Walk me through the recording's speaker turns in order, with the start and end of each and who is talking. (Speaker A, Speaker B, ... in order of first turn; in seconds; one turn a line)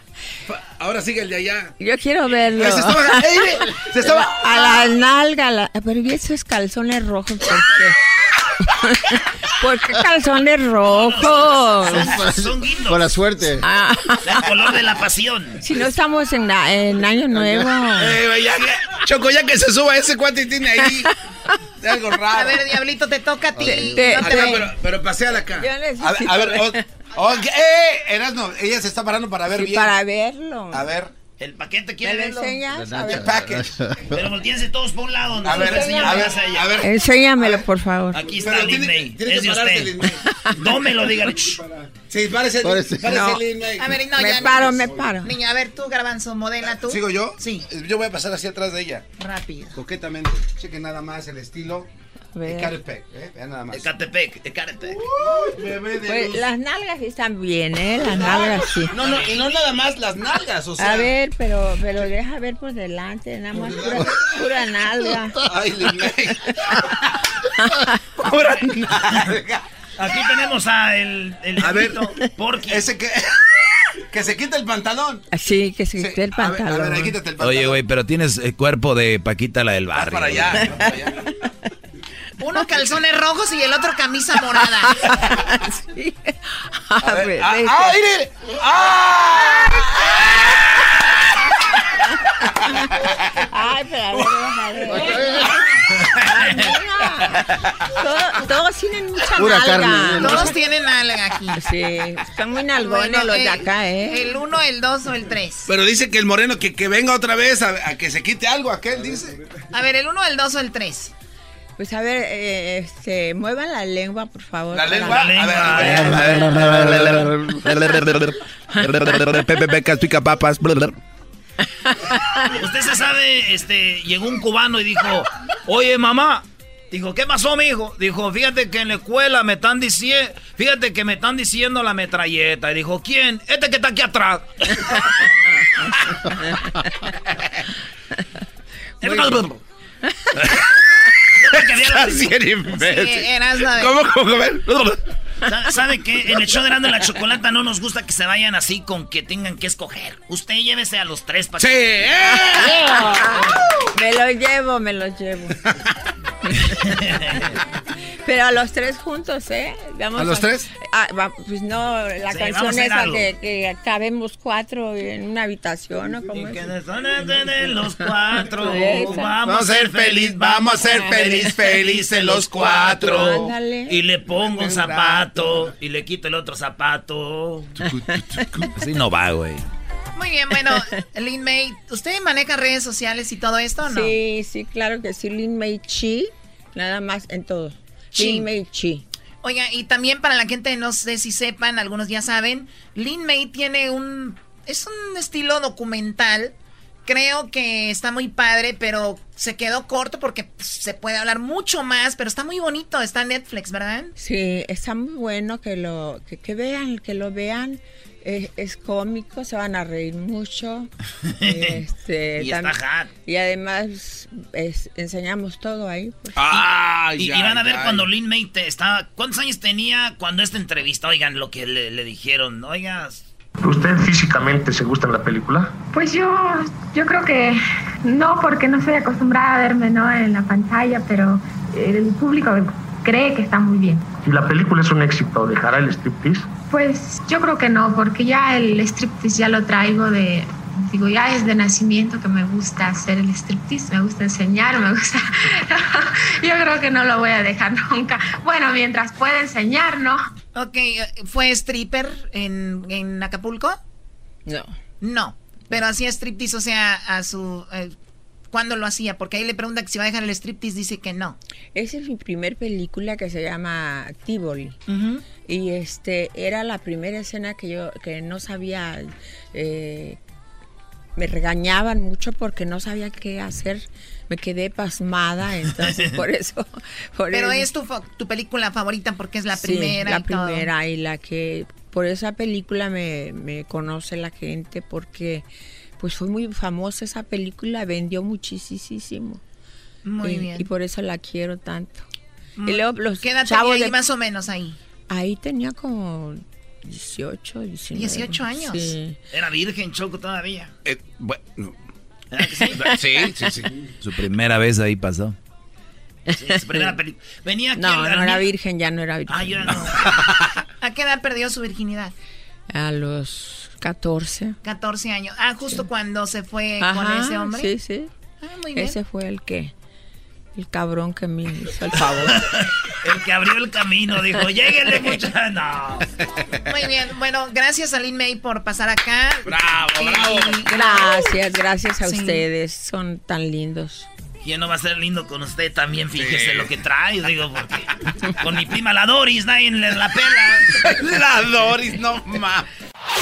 Speaker A: 0.5-1.7
Speaker B: 1.8-8.0
Speaker A: 2.5-4.9
Speaker B: 8.7-12.3
Speaker C: 10.8-13.1
Speaker D: 11.9-13.6
Speaker B: 13.6-14.5
Speaker C: 14.2-15.6
Speaker B: 15.6-18.2
Speaker D: 17.3-17.9
Speaker A: 17.9-21.1
Speaker A: 21.8-22.6
Speaker E: 22.3-24.7
Speaker D: 23.6-24.2
Speaker B: 23.6-24.6
Speaker A: 24.2-30.0
Speaker B: 25.6-26.8
Speaker B: 29.5-30.9
Speaker A: 30.7-31.1
Speaker C: 31.4-32.6
Speaker B: 32.0-33.4
Speaker D: 32.7-34.2
Speaker A: 33.1-33.7
Speaker C: 34.1-36.8
Speaker A: 35.4-37.6
Speaker B: 35.5-36.2
Speaker B: 36.8-38.2
Speaker C: 38.1-39.9
Speaker A: 38.2-40.2
Speaker C: 40.5-41.6
Speaker A: 41.5-43.9
Speaker D: 42.6-43.2
Speaker E: 43.8-47.6
Speaker B: 44.1-45.3
Speaker A: 44.8-45.1
Speaker A: 46.7-49.0
Speaker E: 49.2-49.8
Speaker A: 49.8-51.9
Speaker B: 52.4-52.8
Speaker A: 52.5-53.9
Speaker C: 53.7-55.0
Speaker A: 54.9-56.4
Speaker B: 56.0-59.0
Speaker A: 58.0-61.1
Speaker C: 59.0-59.3
Speaker B: 60.8-65.4
Speaker A: 63.5-64.4
Speaker A: 65.4-66.8
Speaker A: 68.2-69.6
Speaker C: 70.0-72.8
Speaker A: 71.6-72.0
Speaker A: 72.7-75.2
Speaker B: 75.3-77.2
Speaker A: 76.0-77.8
Speaker F: 77.4-80.7
Speaker A: 79.9-81.2
Speaker E: 82.4-85.0
Speaker B: 84.9-86.4
Speaker B: 86.9-88.0
Speaker A: 87.0-90.9
Speaker B: 92.5-95.6
Speaker A: 94.1-94.4
Speaker D: 94.9-95.5
Speaker A: 95.9-96.5
Speaker B: 96.2-100.6
Speaker A: 97.4-97.7
Speaker D: 99.3-100.5
Speaker E: 100.2-101.6
Speaker B: 101.5-104.3
Speaker E: 102.8-105.7
Speaker A: 105.7-109.4
Speaker E: 109.7-111.1
Speaker B: 111.8-116.2
Speaker A: 114.7-121.0
Speaker C: 115.0-117.2
Speaker D: 116.4-117.6
Speaker C: 122.5-134.9
Speaker C: 139.0-139.5
Speaker A: 139.0-139.6
Speaker A: 140.4-140.7
Speaker C: 141.4-142.3
Speaker A: 141.5-145.0
Speaker E: 142.7-143.9
Speaker C: 145.4-152.1
Speaker A: 151.6-153.3
Speaker B: 152.7-153.4
Speaker B: 153.9-155.6
Speaker C: 156.8-157.4
Speaker B: 158.2-166.7
Speaker A: 160.2-160.7
Speaker C: 162.3-163.3
Speaker C: 166.3-177.7
Speaker B: 168.6-169.3
Speaker A: 168.8-173.5
Speaker B: 172.9-173.9
Speaker A: 174.3-175.7
Speaker A: 177.8-178.7
Speaker F: 178.8-179.7
Speaker E: 180.2-184.2
Speaker B: 183.8-189.0
Speaker E: 188.2-188.5
Speaker E: 189.4-196.5
Speaker E: 197.1-204.1
Speaker B: 204.2-210.9
Speaker B: 211.4-216.6
Speaker C: 211.4-211.7
Speaker C: 212.4-213.1
Speaker A: 216.3-218.1
Speaker C: 216.5-223.2
Speaker G: 223.6-225.8
Speaker H: 225.9-234.1
Speaker G: 234.2-236.5
Speaker H: 236.7-250.2
Speaker E: 250.6-253.8
Speaker B: 254.5-254.8
Speaker E: 255.0-257.9
Speaker E: 258.5-261.4
Speaker B: 261.7-264.8
Speaker E: 264.9-265.2
Speaker B: 265.3-270.2
Speaker B: 271.2-277.7
Speaker E: 277.3-280.7
Speaker B: 279.5-285.5
Speaker B: 286.0-289.4
Speaker E: 290.1-290.6
Speaker B: 290.2-292.1
Speaker E: 292.6-294.8
Speaker B: 292.7-293.9
Speaker B: 295.1-299.2
Speaker E: 297.9-298.9
Speaker C: 299.3-300.7
Speaker A: 300.9-301.8
Speaker C: 302.3-302.9
Speaker A: 302.8-303.7
Speaker B: 302.9-303.5
Speaker F: 304.0-305.4
Speaker C: 306.3-308.5
Speaker B: 307.8-309.9
Speaker C: 309.3-310.1
Speaker A: 309.8-310.6
Speaker E: 310.8-312.1
Speaker B: 312.7-314.6
Speaker E: 314.6-317.7
Speaker B: 316.8-318.1
Speaker E: 318.4-319.0
Speaker B: 318.7-319.7
Speaker B: 320.6-322.4
Speaker C: 322.4-326.1
Speaker E: 326.7-331.3
Speaker A: 329.5-330.7
Speaker B: 330.7-334.1
Speaker E: 332.0-332.4
Speaker C: 334.4-340.7
Speaker A: 336.1-336.7
Speaker A: 340.7-342.7